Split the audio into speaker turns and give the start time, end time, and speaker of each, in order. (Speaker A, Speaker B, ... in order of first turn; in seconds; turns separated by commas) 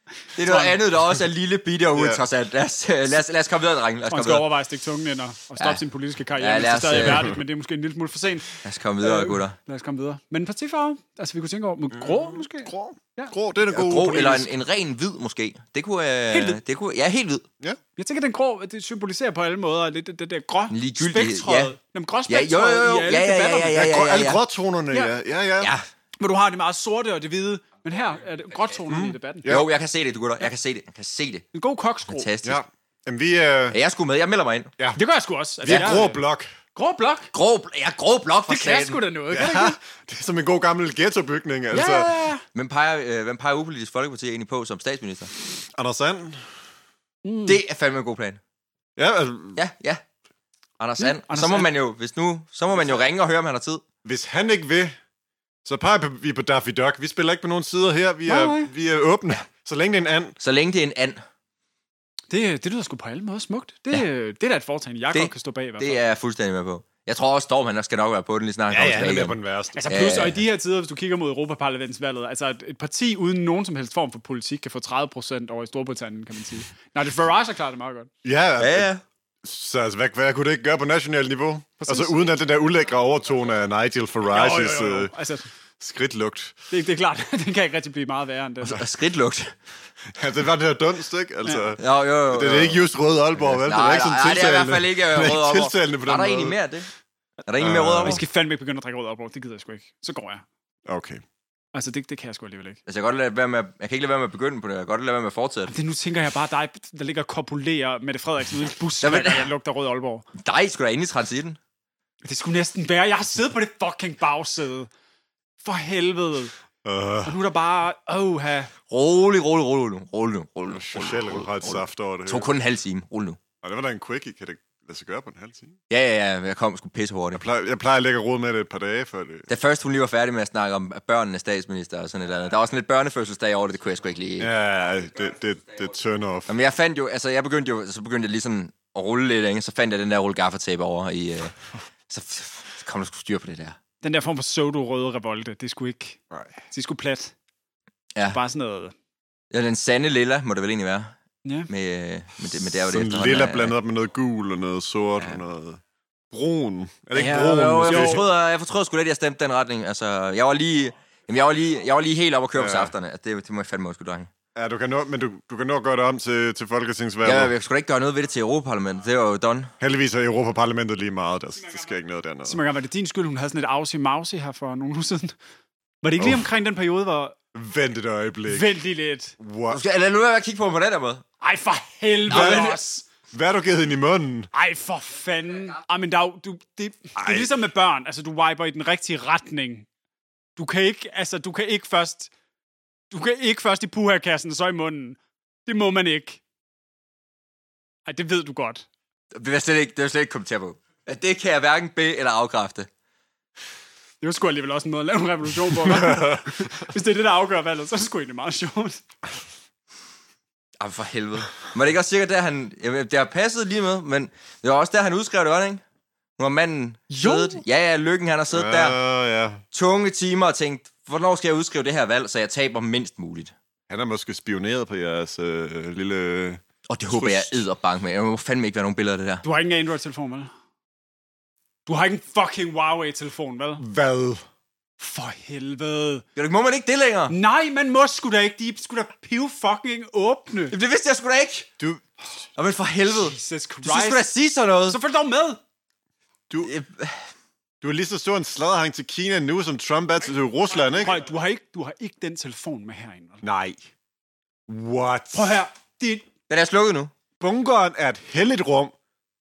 Speaker A: 0.3-4.5, Speaker B: 0.4-0.8, Speaker C: 1.9-2.2, Speaker B: 4.1-13.3, Speaker A: 6.3-7.3, Speaker A: 8.6-9.6, Speaker C: 11.9-14.5, Speaker A: 13.7-17.4, Speaker B: 16.3-16.6, Speaker B: 17.9-23.8, Speaker A: 20.7-21.7, Speaker A: 22.3-24.4, Speaker C: 23.7-25.7, Speaker A: 25.6-25.8, Speaker B: 26.2-29.5, Speaker C: 28.9-29.7, Speaker A: 29.4-31.4, Speaker B: 31.5-32.3, Speaker A: 32.1-32.6, Speaker C: 32.4-33.8, Speaker A: 33.7-34.7, Speaker B: 34.9-36.2, Speaker C: 35.6-36.5, Speaker A: 35.6-36.0, Speaker B: 36.7-37.3, Speaker A: 37.3-39.0, Speaker B: 38.5-39.8, Speaker C: 39.3-42.1, Speaker B: 41.7-42.4, Speaker A: 42.5-45.3, Speaker C: 45.6-46.5, Speaker B: 47.2-47.6, Speaker A: 47.5-48.4, Speaker C: 49.0-49.6, Speaker A: 49.5-50.0, Speaker A: 50.8-53.8, Speaker B: 51.0-51.7, Speaker C: 54.0-55.0, Speaker C: 55.6-60.4, Speaker B: 58.3-58.7, Speaker A: 60.4-61.2, Speaker B: 62.3-66.0, Speaker A: 65.1-70.4, Speaker C: 68.7-69.9, Speaker B: 69.7-78.1, Speaker C: 78.2-78.9, Speaker A: 78.6-79.0, Speaker C: 79.4-85.1, Speaker B: 81.8-82.3, Speaker B: 84.3-85.5, Speaker C: 85.8-86.6, Speaker B: 86.7-88.8, Speaker A: 88.6-89.5, Speaker C: 90.1-96.6, Speaker A: 91.8-92.8, Speaker A: 93.4-96.9, Speaker A: 97.5-98.2, Speaker C: 97.6-98.2, Speaker B: 98.0-100.4, Speaker C: 100.8-101.2, Speaker B: 101.7-102.8, Speaker A: 102.9-105.7, Speaker B: 105.7-110.2, Speaker A: 109.0-109.5, Speaker A: 110.4-111.6, Speaker B: 112.2-114.9, Speaker B: 115.6-116.5, Speaker C: 116.8-117.4, Speaker B: 117.2-118.7, Speaker A: 118.9-123.4, Speaker C: 120.7-122.5, Speaker C: 123.6-125.8, Speaker A: 125.9-127.4, Speaker C: 127.3-129.5, Speaker A: 129.5-134.5, Speaker C: 134.4-136.5, Speaker A: 136.5-143.8, Speaker B: 144.0-146.2, Speaker B: 146.7-147.3, Speaker B: 148.3-148.9, Speaker A: 149.5-151.1, Speaker B: 151.4-151.7, Speaker A: 151.7-153.7, Speaker C: 152.8-158.2, Speaker A: 157.1-164.3, Speaker B: 157.8-158.2, Speaker C: 162.5-162.9, Speaker C: 164.5-167.5, Speaker A: 167.2-169.7, Speaker C: 169.8-172.6, Speaker B: 172.4-175.3, Speaker B: 176.0-177.3, Speaker C: 176.2-176.4, Speaker C: 177.5-178.7, Speaker B: 178.5-179.3, Speaker C: 179.4-179.8, Speaker A: 179.7-181.2, Speaker B: 181.4-183.1, Speaker A: 182.3-182.8, Speaker C: 182.3-182.8, Speaker C: 183.3-184.5, Speaker B: 184.5-189.9, Speaker C: 187.2-187.5, Speaker B: 190.6-192.3, Speaker B: 193.1-196.4, Speaker B: 198.1-198.9, Speaker A: 199.3-202.9, Speaker B: 204.2-209.0, Speaker C: 206.0-206.3, Speaker A: 210.8-215.8, Speaker A: 216.4-219.0, Speaker B: 217.1-217.6, Speaker C: 218.5-219.6, Speaker A: 219.7-223.5, Speaker C: 223.9-227.6, Speaker A: 226.9-229.4, Speaker B: 229.4-230.5, Speaker B: 231.8-233.8, Speaker C: 233.8-234.4, Speaker B: 235.0-236.2, Speaker A: 236.3-237.3, Speaker B: 237.3-240.8, Speaker A: 240.7-241.7, Speaker C: 241.8-242.2, Speaker A: 242.6-245.0, Speaker B: 243.1-244.3, Speaker B: 244.8-245.6, Speaker A: 246.6-247.2, Speaker C: 247.8-251.2, Speaker B: 251.0-253.4, Speaker C: 253.4-253.8, Speaker C: 254.7-255.6, Speaker B: 255.3-256.2, Speaker A: 256.5-257.1, Speaker C: 257.4-258.9